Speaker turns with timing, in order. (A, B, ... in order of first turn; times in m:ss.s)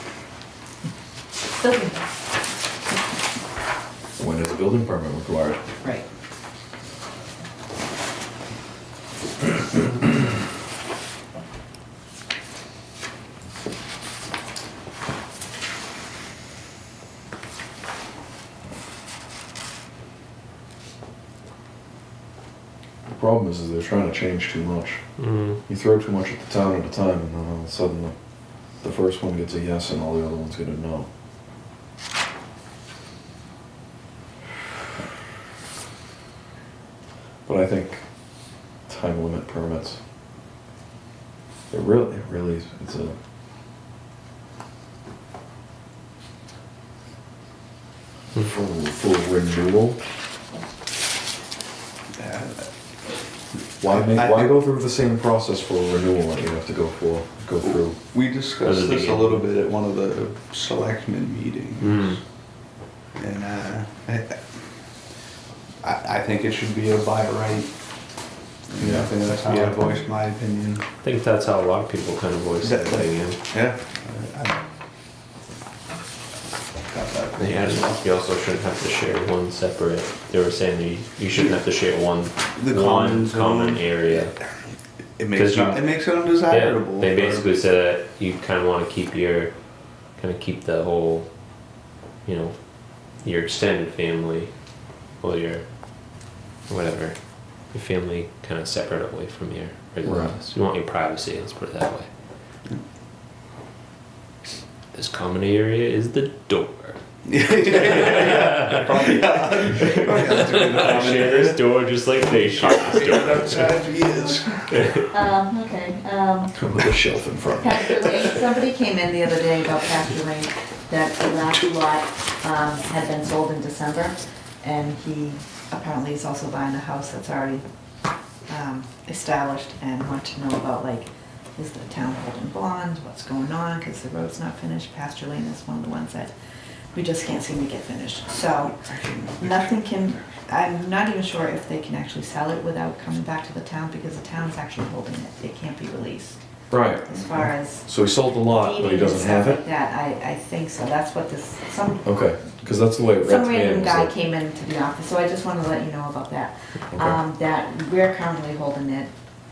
0:01.6-0:02.1 A
0:04.2-0:05.6 B
0:23.1-0:31.1 B
0:25.2-0:25.6 C
0:37.5-0:40.0 B
0:41.7-0:43.2 B
0:48.4-0:50.0 B
0:52.2-0:52.7 D
0:53.8-0:58.0 B
0:53.8-0:54.6 D
0:57.6-1:02.1 D
0:58.6-0:59.5 C
1:01.8-1:02.2 C
1:03.2-1:04.4 D
1:05.8-1:07.7 D
1:08.7-1:10.8 D
1:08.8-1:09.1 B
1:09.5-1:09.9 C
1:11.0-1:13.4 C
1:12.6-1:14.6 D
1:16.9-1:18.0 D
1:17.4-1:24.4 C
1:22.6-1:24.3 D
1:25.2-1:27.5 D
1:25.3-1:42.1 C
1:40.0-1:40.4 B
1:44.9-1:47.0 C
1:47.2-1:51.6 D
1:47.6-1:53.8 C
1:52.4-1:54.9 D
1:54.7-1:55.0 C
1:55.0-1:56.6 A
1:56.5-1:58.4 B
1:57.5-2:07.6 A
2:08.5-2:16.3 A
2:16.9-2:26.4 A
2:18.8-2:19.9 D
2:26.7-2:29.6 B
2:27.0-2:32.1 A
2:32.0-2:34.1 B
2:33.2-2:39.1 A
2:36.9-2:37.2 B